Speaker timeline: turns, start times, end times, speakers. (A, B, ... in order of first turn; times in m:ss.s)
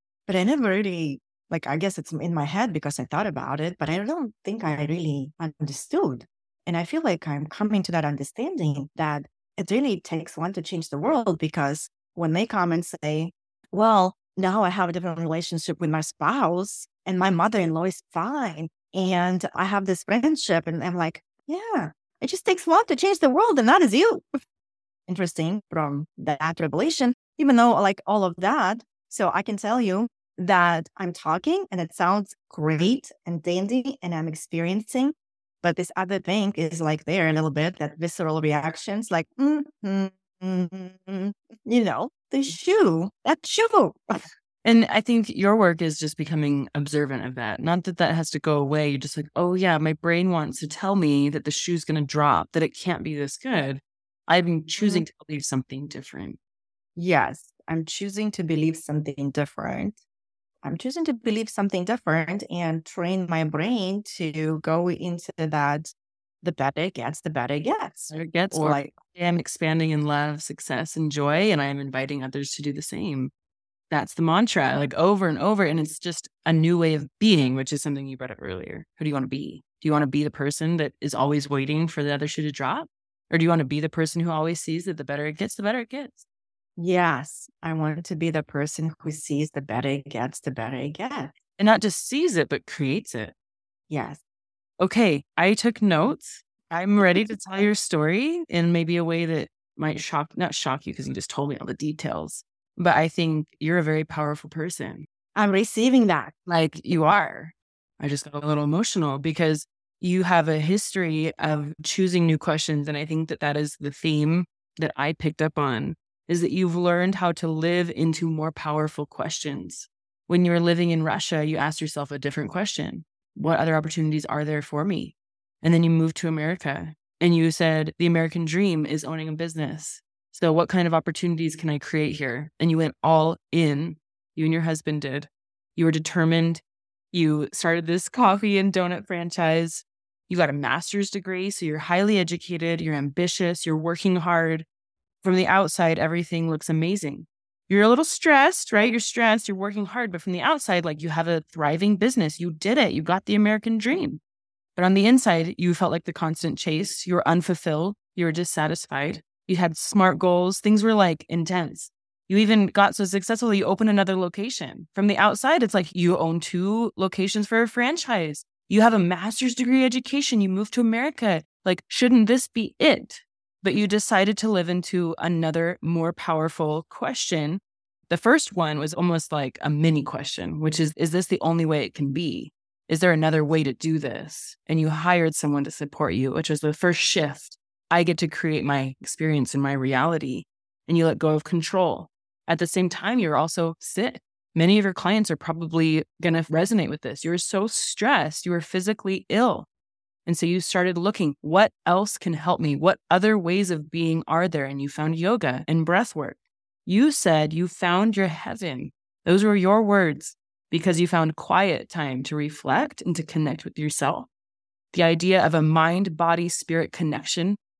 0:00.3-0:24.2 A
0:25.1-0:44.0 A
0:44.6-0:56.4 B
0:54.8-0:55.0 A
0:57.0-1:00.0 A
1:00.6-1:08.9 A
1:08.1-1:13.3 B
1:13.9-1:26.2 B
1:26.8-1:31.3 A
1:31.6-1:33.3 B
1:33.9-1:34.2 A
1:34.8-1:45.1 B
1:45.3-1:46.4 A
1:46.4-2:24.6 B
2:25.2-2:34.2 B
2:34.8-3:19.7 B
3:20.2-3:34.3 B
3:34.9-3:37.6 B